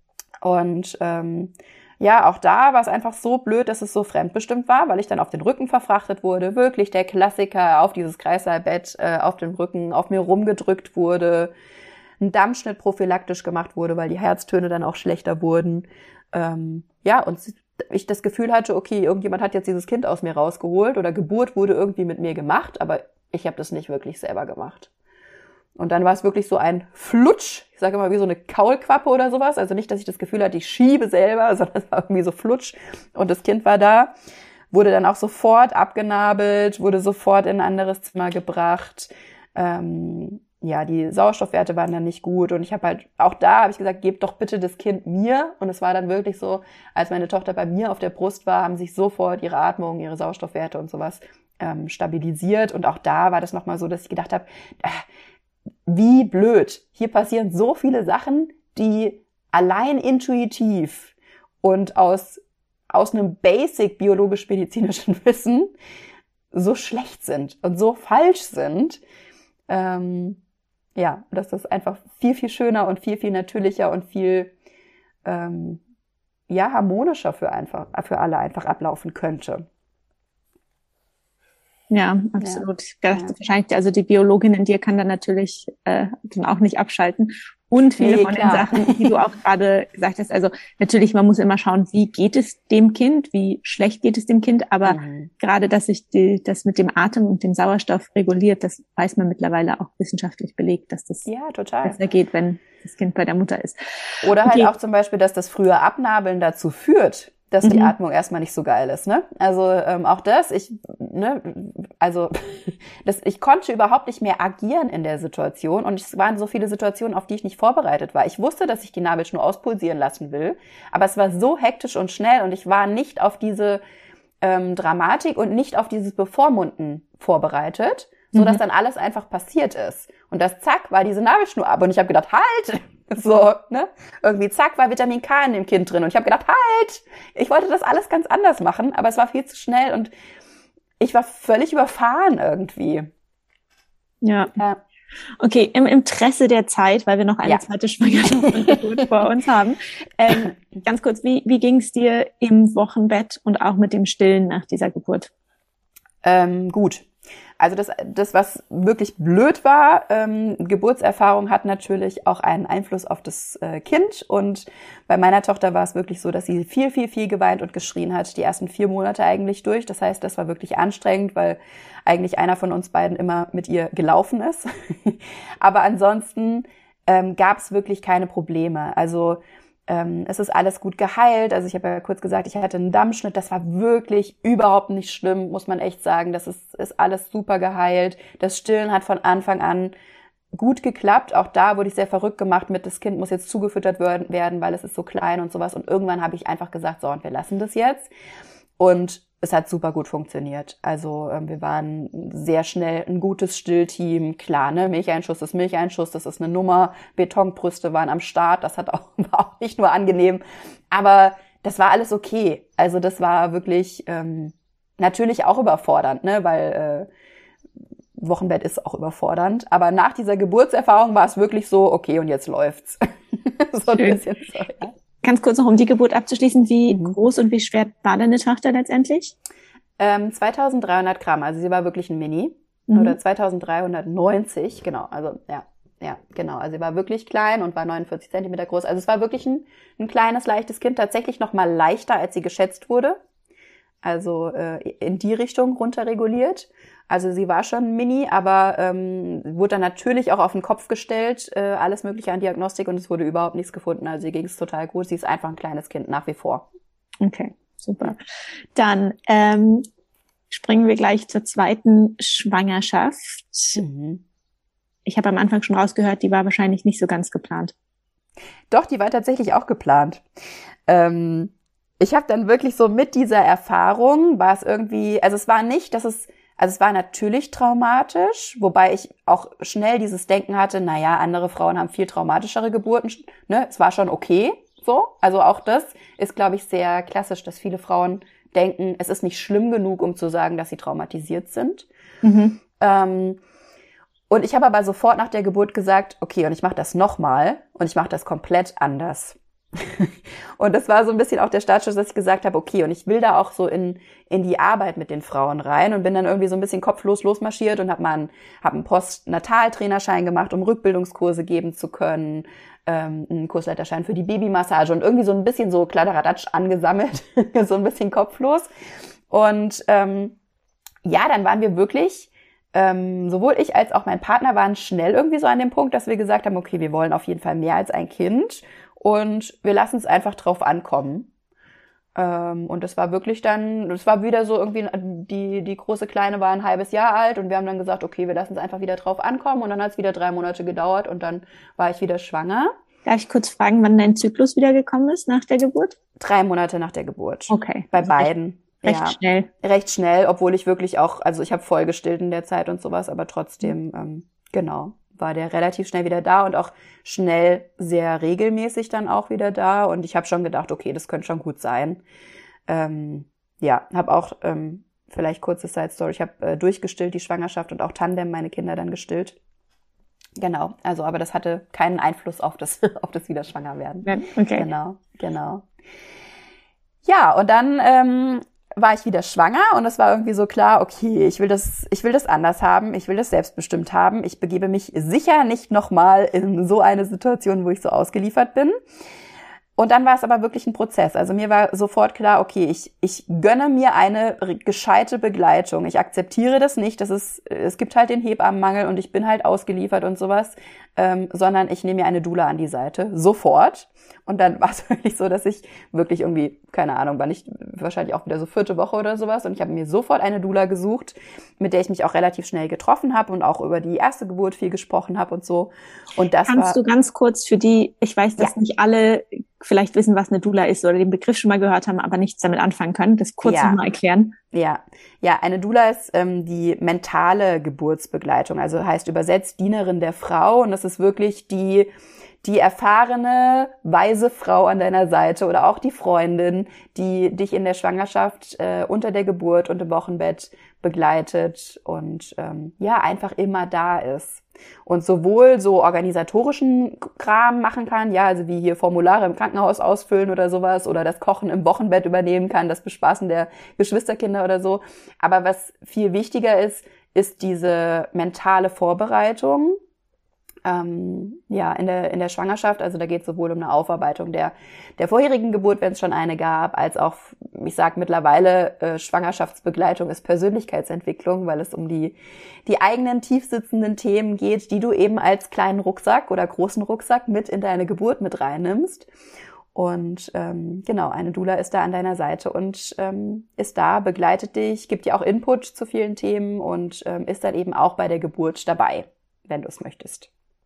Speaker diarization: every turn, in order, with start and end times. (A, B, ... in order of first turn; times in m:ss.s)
0:00.4-0:11.5 A
0:12.2-0:24.9 A
0:25.8-0:34.1 A
0:34.7-0:55.0 A
0:55.9-1:05.7 A
1:06.5-1:09.0 A
1:09.7-1:10.4 A
1:11.0-1:14.5 A
1:15.2-1:15.8 A
1:16.5-1:19.7 A
1:21.9-1:41.3 B
1:22.4-1:23.3 A
1:28.0-1:29.1 A
1:34.8-1:35.3 A
1:41.3-1:42.0 A
1:41.8-1:44.7 B
1:44.2-2:03.8 A
1:47.6-1:47.9 B
2:04.4-2:20.1 A
2:08.3-2:08.6 B
2:21.0-2:23.1 A
2:24.2-2:24.6 B
2:25.4-2:35.3 B
2:36.2-2:37.1 A
2:37.6-3:09.9 A
3:10.5-3:18.1 A
3:18.8-3:37.1 A
3:38.2-3:44.9 A
3:45.2-3:49.4 B
3:46.9-3:47.2 A
3:50.0-4:03.2 A
3:52.9-3:53.2 B
4:04.0-4:16.6 A
4:17.2-4:18.2 B
4:18.8-4:19.8 B
4:20.5-4:23.8 B
4:23.8-4:24.2 A
4:25.1-4:27.7 B
4:28.7-4:30.2 A
4:30.9-4:51.9 A
4:52.2-4:52.6 B
4:52.8-4:53.4 A
4:54.3-5:18.7 A
5:19.3-5:20.4 A
5:21.0-5:31.3 A
5:32.2-5:42.7 A
5:43.0-5:46.0 B
5:46.2-6:02.0 A
5:47.5-5:48.3 B
5:48.8-5:49.5 B
6:02.7-6:09.4 A
6:10.4-6:15.7 A
6:14.0-6:14.7 B
6:17.0-6:28.8 A
6:29.8-6:56.8 A
6:56.4-7:04.4 B
7:03.4-7:03.8 A
7:04.5-7:11.9 A
7:12.4-7:39.8 A
7:40.6-7:59.1 A
7:59.7-8:10.3 A